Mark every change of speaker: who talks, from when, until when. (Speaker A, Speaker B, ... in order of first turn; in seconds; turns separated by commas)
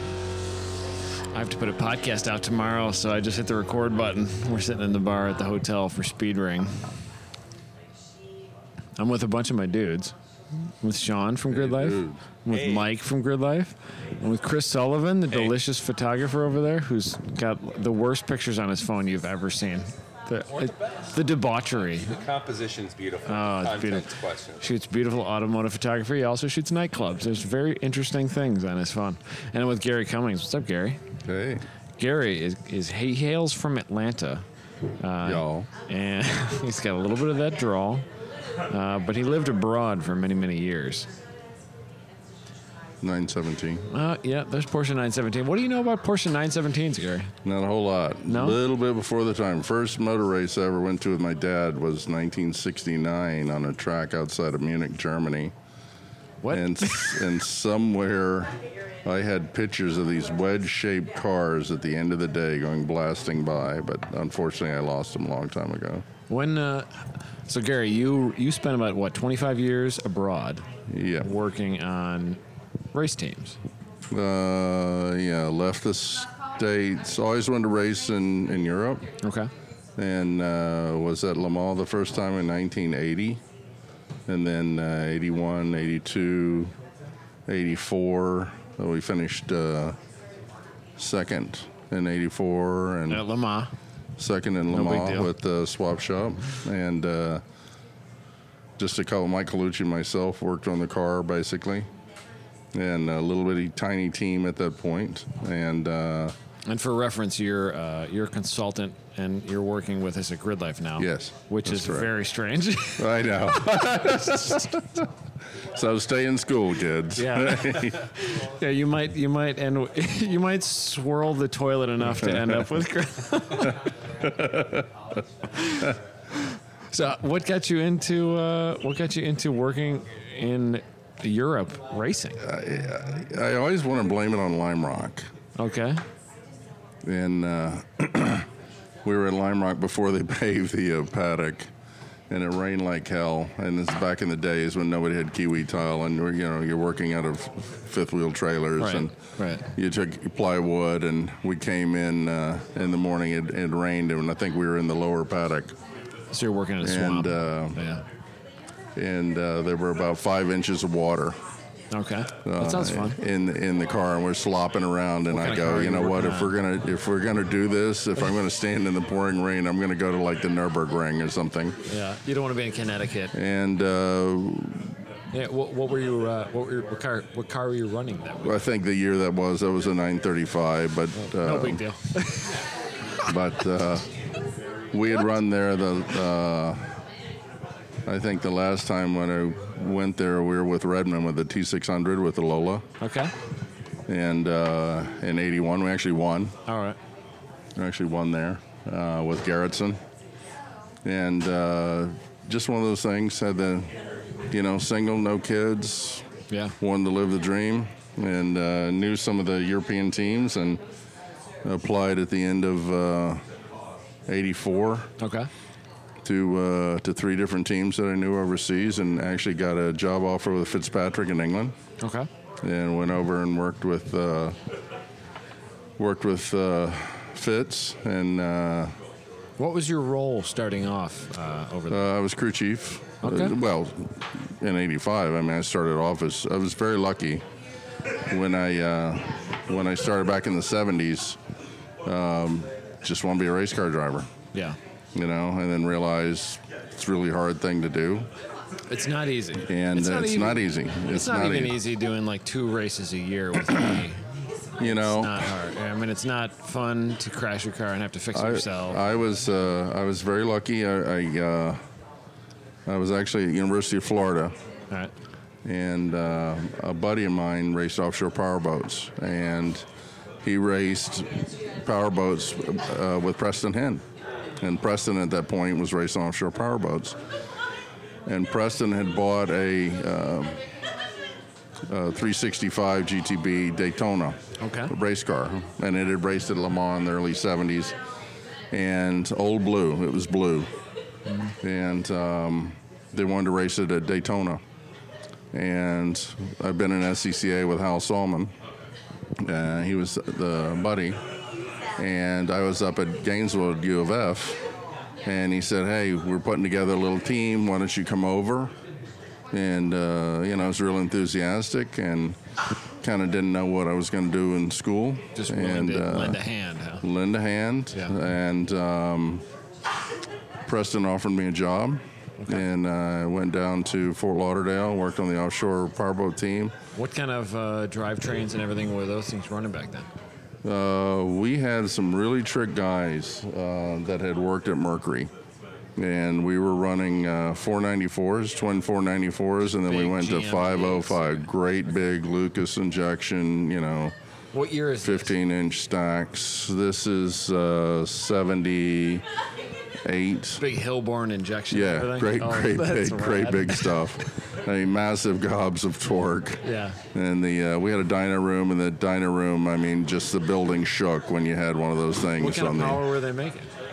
Speaker A: 1.3-6.9, Speaker A: 9.0-10.1, Speaker A: 10.8-22.2, Speaker B: 11.5-12.2, Speaker C: 12.5-12.9, Speaker C: 20.6-21.1, Speaker C: 21.9-24.6, Speaker A: 23.2-31.0, Speaker B: 31.2-31.6, Speaker A: 32.0-34.4, Speaker A: 35.0-38.0, Speaker B: 35.2-35.7, Speaker A: 38.7-41.1, Speaker B: 43.0-43.8, Speaker A: 43.9-47.3, Speaker B: 47.4-55.5, Speaker A: 48.3-48.6, Speaker A: 56.4-57.2, Speaker B: 56.5-66.0, Speaker A: 66.3-70.6, Speaker B: 70.9-71.3, Speaker A: 71.2-72.4, Speaker A: 72.9-73.6, Speaker B: 74.1-79.1, Speaker A: 79.2-79.5, Speaker B: 80.0-83.4, Speaker B: 84.3-86.7, Speaker B: 87.5-90.0, Speaker B: 91.0-93.2, Speaker A: 93.1-93.7, Speaker B: 94.2-97.4, Speaker A: 94.7-95.3, Speaker B: 98.8-101.9, Speaker B: 102.7-106.3, Speaker A: 106.7-114.7, Speaker B: 111.0-112.1, Speaker B: 113.0-115.1, Speaker B: 115.6-118.1, Speaker A: 117.2-123.8, Speaker B: 124.2-124.9, Speaker A: 125.7-125.9, Speaker A: 126.9-132.5, Speaker B: 132.4-135.3, Speaker A: 135.6-136.0, Speaker B: 137.0-138.5, Speaker B: 139.0-141.7, Speaker B: 142.3-149.1, Speaker A: 148.8-149.7, Speaker B: 149.7-155.8, Speaker A: 156.3-158.0, Speaker B: 156.8-157.8, Speaker B: 158.9-161.4, Speaker A: 161.9-163.2, Speaker B: 162.4-171.8, Speaker A: 165.3-166.5, Speaker A: 171.8-173.3, Speaker B: 173.3-174.9, Speaker A: 175.3-178.7, Speaker B: 178.4-181.8, Speaker A: 181.2-182.7, Speaker B: 183.2-184.1, Speaker B: 184.9-186.9, Speaker B: 188.1-192.8, Speaker A: 193.0-193.3, Speaker B: 194.1-196.5, Speaker A: 196.7-197.0, Speaker B: 197.8-200.0, Speaker B: 201.0-203.9, Speaker B: 204.5-206.2, Speaker A: 206.5-206.7, Speaker B: 206.8-210.8, Speaker B: 211.6-213.4, Speaker B: 214.3-215.1, Speaker A: 215.2-215.5, Speaker B: 216.2-221.8, Speaker A: 222.0-222.3, Speaker B: 222.6-224.6, Speaker B: 226.0-228.9, Speaker A: 229.6-232.0, Speaker B: 231.9-237.4, Speaker A: 233.2-233.5, Speaker B: 238.3-241.4, Speaker B: 242.0-244.3, Speaker B: 245.1-248.3, Speaker A: 248.9-254.2, Speaker B: 249.6-251.8, Speaker B: 254.8-255.5, Speaker A: 254.8-259.0, Speaker B: 258.3-261.8, Speaker B: 262.9-264.5, Speaker B: 265.6-269.8, Speaker B: 270.4-274.0, Speaker B: 274.6-277.1, Speaker B: 278.2-280.6, Speaker B: 281.9-287.9, Speaker A: 284.6-284.9, Speaker B: 288.7-290.7, Speaker B: 291.6-294.6, Speaker B: 295.5-298.5, Speaker B: 299.4-301.2, Speaker B: 302.0-304.6, Speaker B: 305.2-308.7, Speaker B: 309.5-312.4, Speaker B: 313.0-316.4, Speaker A: 315.3-317.0, Speaker B: 317.0-319.4, Speaker B: 320.6-326.7, Speaker A: 326.9-330.1, Speaker B: 330.6-335.3, Speaker B: 335.9-344.1, Speaker A: 339.8-341.4, Speaker A: 344.5-345.3, Speaker B: 345.0-349.2, Speaker B: 350.0-350.6, Speaker A: 350.6-354.0, Speaker B: 351.7-356.6, Speaker A: 356.6-357.0, Speaker B: 357.1-363.0, Speaker A: 362.4-363.7